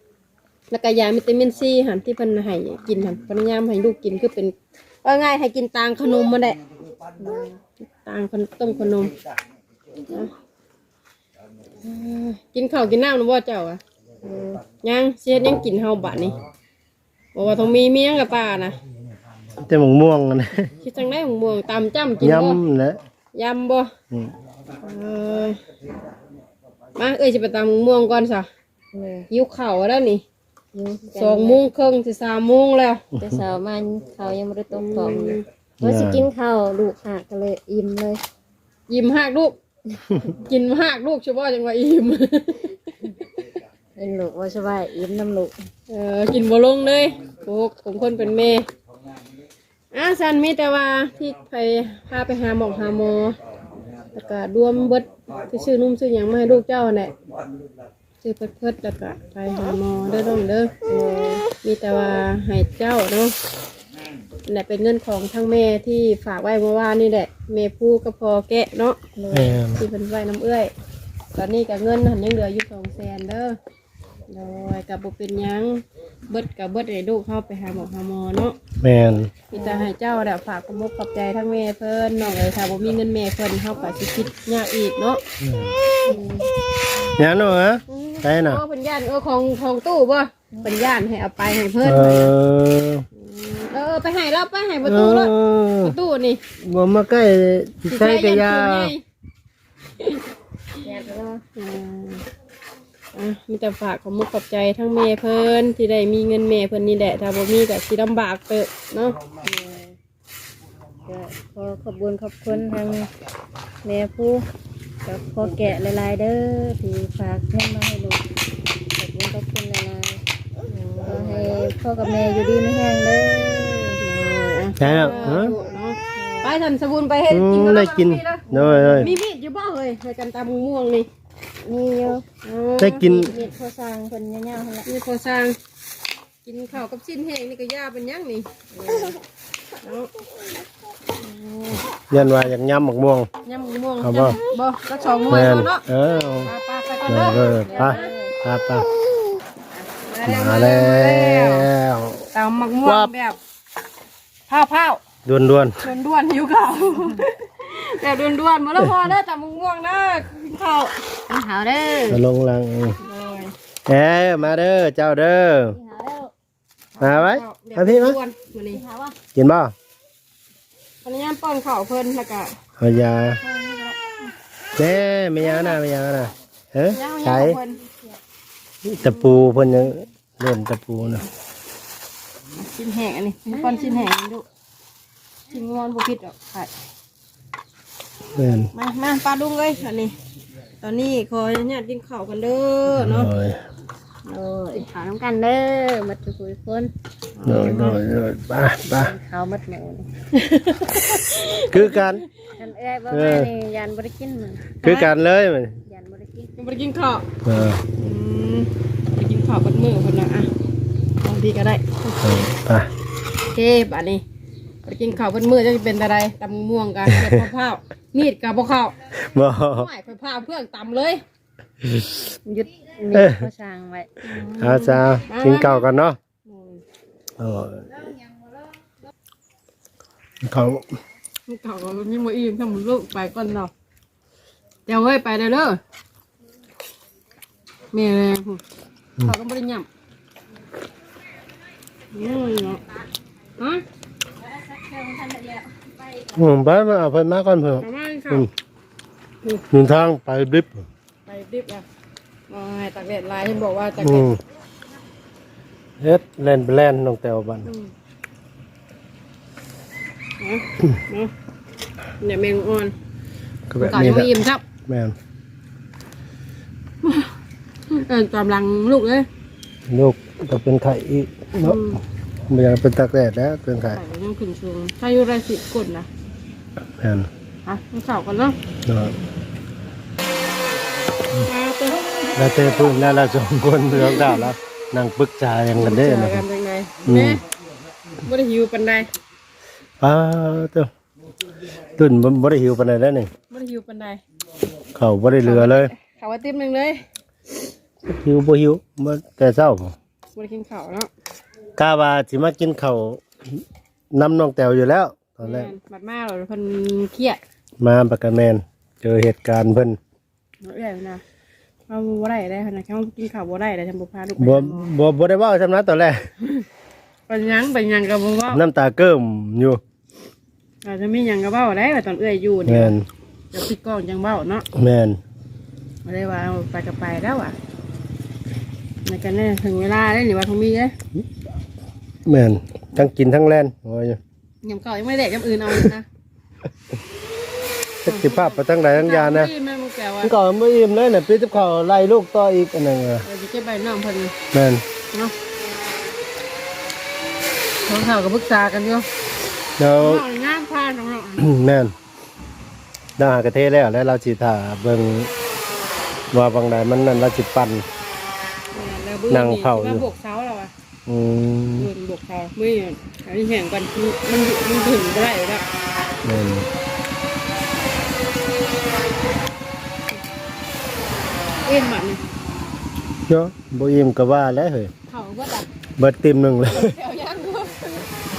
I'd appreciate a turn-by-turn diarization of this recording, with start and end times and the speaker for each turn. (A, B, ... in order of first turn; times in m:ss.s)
0:00.7-0:06.6 A
0:07.2-0:07.6 B
0:08.0-0:09.1 A
0:11.8-0:13.8 A
0:14.2-0:14.6 B
0:14.8-0:16.4 A
0:17.4-0:18.8 A
0:19.6-0:20.7 C
0:20.8-0:22.6 A
0:22.2-0:23.0 C
0:23.3-0:23.9 A
0:24.8-0:25.6 A
0:27.0-0:28.5 A
0:28.9-0:29.3 B
0:29.3-0:30.2 A
0:30.7-0:31.6 B
0:31.1-0:33.0 A
0:33.2-0:33.4 C
0:33.2-0:38.2 B
0:34.7-0:35.4 A
0:35.8-0:36.3 C
0:38.9-0:39.6 A
0:40.2-0:43.1 A
0:44.0-0:45.6 B
0:45.9-0:48.7 A
0:49.9-0:53.4 A
0:54.1-0:57.1 A
0:58.2-1:00.7 A
1:00.9-1:01.5 B
1:01.6-1:03.4 A
1:04.4-1:09.0 A
1:09.2-1:09.6 B
1:09.3-1:09.8 C
1:09.8-1:10.7 A
1:11.4-1:13.6 A
1:14.3-1:18.6 A
1:18.8-1:19.4 C
1:19.5-1:25.2 A
1:19.5-1:19.9 B
1:25.4-1:25.7 C
1:26.0-1:26.5 B
1:27.2-1:28.6 C
1:27.9-1:32.3 A
1:31.8-1:33.0 C
1:33.2-1:36.4 A
1:34.8-1:36.0 C
1:36.6-1:38.9 C
1:37.9-1:39.0 A
1:40.0-1:40.2 A
1:40.8-1:41.4 B
1:41.6-1:42.2 A
1:43.1-1:49.2 A
1:49.4-1:50.0 B
1:51.1-1:53.1 B
1:53.8-1:54.4 B
1:55.0-1:58.2 B
1:59.0-2:00.2 B
2:00.7-2:01.6 A
2:01.0-2:04.0 B
2:04.0-2:11.1 A
2:04.8-2:05.6 C
2:04.8-2:05.6 B
2:06.2-2:06.5 B
2:07.3-2:09.1 C
2:08.5-2:09.1 B
2:11.6-2:12.2 B
2:12.4-2:13.3 A
2:12.8-2:13.3 C
2:13.1-2:14.9 B
2:14.8-2:15.6 A
2:16.4-2:18.5 A
2:18.7-2:19.2 B
2:19.8-2:20.1 A
2:21.3-2:21.8 A
2:22.1-2:23.3 C
2:23.4-2:25.8 A
2:24.0-2:24.4 C
2:25.3-2:26.5 C
2:26.4-2:28.1 A
2:27.1-2:28.9 C
2:27.4-2:28.3 B
2:29.8-2:31.7 A
2:30.2-2:32.3 C
2:32.3-2:33.4 A
2:32.8-2:33.1 C
2:34.5-2:35.0 A
2:35.2-2:35.8 C
2:35.8-2:41.0 A
2:41.3-2:42.2 B
2:42.1-2:43.0 C
2:43.0-2:43.5 A
2:43.9-2:45.8 C
2:45.7-2:46.3 B
2:47.0-2:48.8 A
2:47.0-2:48.2 C
2:48.7-2:49.2 B
2:49.4-2:49.7 C
2:51.0-2:52.5 A
2:52.8-2:53.4 C
2:53.4-2:54.0 B
2:54.8-2:57.6 C
2:55.4-2:55.8 A
2:56.9-2:57.8 A
2:58.8-3:01.3 C
3:02.6-3:04.4 A
3:03.5-3:04.1 B
3:05.5-3:06.7 A
3:08.4-3:08.7 C
3:08.7-3:10.2 A
3:10.8-3:13.3 A
3:13.0-3:13.6 C
3:14.3-3:16.9 B
3:17.4-3:18.0 A
3:17.4-3:19.1 C
3:18.9-3:20.1 B
3:20.3-3:22.3 A
3:21.7-3:22.2 C
3:22.6-3:24.7 B
3:23.1-3:23.5 C
3:24.8-3:25.1 A
3:24.8-3:25.8 C
3:25.8-3:26.5 B
3:26.6-3:27.2 A
3:27.4-3:27.8 C
3:28.0-3:30.5 A
3:31.2-3:32.2 A
3:32.2-3:32.9 C
3:33.5-3:34.2 A
3:34.8-3:39.0 A
3:37.1-3:37.4 C
3:39.2-3:39.9 C
3:39.7-3:41.2 A
3:41.8-3:42.2 C
3:42.4-3:44.1 B
3:43.1-3:43.5 C
3:44.2-3:45.8 A
3:44.6-3:46.2 C
3:46.5-3:46.8 A
3:47.4-3:48.0 C
3:50.4-3:50.9 C
3:51.5-3:53.7 A
3:54.9-3:55.8 A
3:57.9-3:58.6 A
3:59.2-3:59.9 A
4:02.1-4:02.8 A
4:04.5-4:05.7 A
4:06.3-4:08.5 C
4:07.8-4:08.5 A
4:09.7-4:10.8 C
4:11.3-4:11.8 A
4:12.5-4:14.3 A
4:14.0-4:14.4 C
4:16.0-4:17.7 C
4:17.6-4:17.9 A
4:20.4-4:21.3 A
4:22.2-4:22.9 A
4:23.7-4:24.3 C
4:23.8-4:24.6 A
4:24.9-4:25.2 C
4:27.0-4:27.3 A
4:27.9-4:29.3 A
4:29.9-4:31.8 C
4:31.6-4:32.0 A
4:32.5-4:34.0 C
4:33.9-4:36.1 A
4:37.0-4:37.3 C
4:37.7-4:38.6 A
4:38.9-4:39.2 C
4:41.4-4:42.6 A
4:42.4-4:46.4 C
4:43.9-4:44.5 A
4:45.8-4:47.4 A
4:47.0-4:47.4 C
4:48.2-4:49.1 A
4:50.0-4:50.9 C
4:51.9-4:53.3 C
4:53.5-4:54.2 A
4:55.0-4:55.9 C
4:55.4-4:57.0 A
4:58.1-4:59.9 C
5:00.3-5:01.1 A
5:01.8-5:03.6 C
5:04.1-5:05.7 C
5:05.4-5:07.4 A
5:07.8-5:10.0 C
5:10.6-5:11.2 A
5:11.9-5:14.9 A
5:14.4-5:16.3 C
5:17.3-5:18.6 A
5:18.5-5:19.8 C
5:20.8-5:23.0 A
5:22.7-5:23.1 C
5:23.5-5:24.6 A
5:24.8-5:25.2 C
5:26.0-5:27.6 A
5:29.1-5:30.9 A
5:32.3-5:34.2 C
5:34.6-5:36.1 A
5:38.0-5:39.5 C
5:38.1-5:40.3 A
5:40.2-5:43.3 C
5:43.2-5:44.4 A
5:44.5-5:44.8 C
5:47.8-5:49.1 A
5:49.8-5:50.2 C
5:50.0-5:51.5 A
5:51.4-5:51.9 C
5:53.2-5:55.3 C
5:56.3-5:57.8 C
5:58.7-6:00.7 A
5:59.3-6:00.0 C
6:01.1-6:01.9 C
6:01.8-6:05.6 A
6:06.2-6:06.7 C
6:11.6-6:12.2 A
6:13.3-6:14.9 C
6:15.1-6:15.7 A
6:16.0-6:16.9 C
6:16.7-6:18.1 A